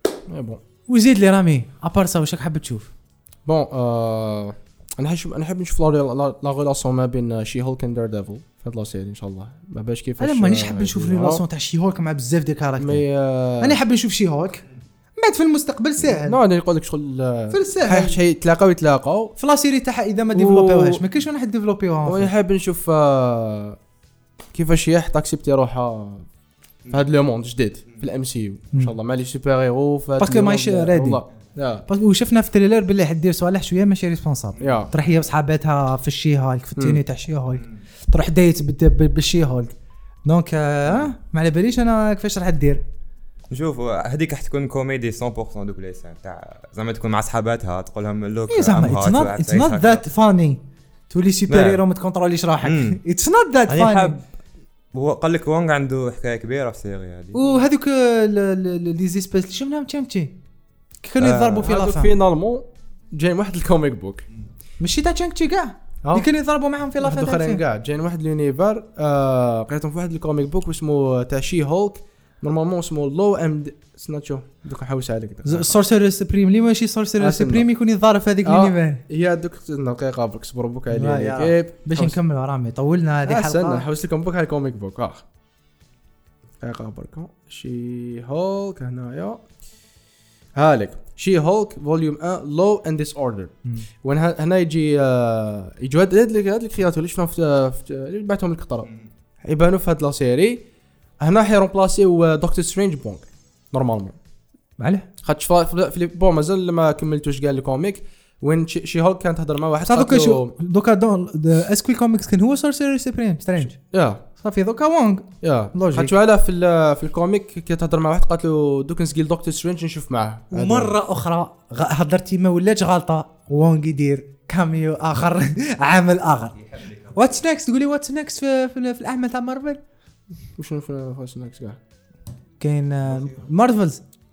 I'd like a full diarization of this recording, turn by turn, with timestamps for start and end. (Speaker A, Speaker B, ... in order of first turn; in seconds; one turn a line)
Speaker A: 0.3-0.6
Speaker B: 0.9-2.9
Speaker A: 3.5-11.4
Speaker B: 10.2-13.0
Speaker A: 12.8-13.8
Speaker B: 13.6-14.6
Speaker B: 15.2-16.4
Speaker A: 16.0-19.3
Speaker B: 17.5-18.2
Speaker B: 19.4-22.3
Speaker A: 20.3-21.0
Speaker A: 22.0-23.8
Speaker A: 24.5-26.3
Speaker A: 26.9-31.9
Speaker B: 30.2-31.2
Speaker B: 31.9-39.7
Speaker A: 34.6-34.9
Speaker A: 36.8-37.0
Speaker B: 40.2-42.8
Speaker C: 43.5-50.0
Speaker B: 48.5-54.2
Speaker C: 51.5-51.8
Speaker C: 52.6-53.0
Speaker C: 53.7-54.2
Speaker C: 54.9-57.4
Speaker B: 57.3-60.4
Speaker B: 61.0-62.1
Speaker C: 61.2-61.6
Speaker A: 61.5-64.2
Speaker B: 64.8-67.6
Speaker A: 67.0-75.7
Speaker B: 75.4-79.0
Speaker A: 77.2-77.7
Speaker A: 78.4-82.2
Speaker B: 80.9-83.8
Speaker A: 83.2-85.2
Speaker A: 86.6-89.4
Speaker A: 90.5-98.9
Speaker A: 99.4-100.6
Speaker A: 101.2-104.2
Speaker B: 104.8-105.1
Speaker A: 105.2-110.5
Speaker B: 109.8-113.8
Speaker A: 113.9-114.2
Speaker B: 114.3-116.1
Speaker A: 115.4-120.9
Speaker B: 120.5-129.8
Speaker C: 126.7-127.2
Speaker A: 130.6-131.8
Speaker B: 132.6-134.0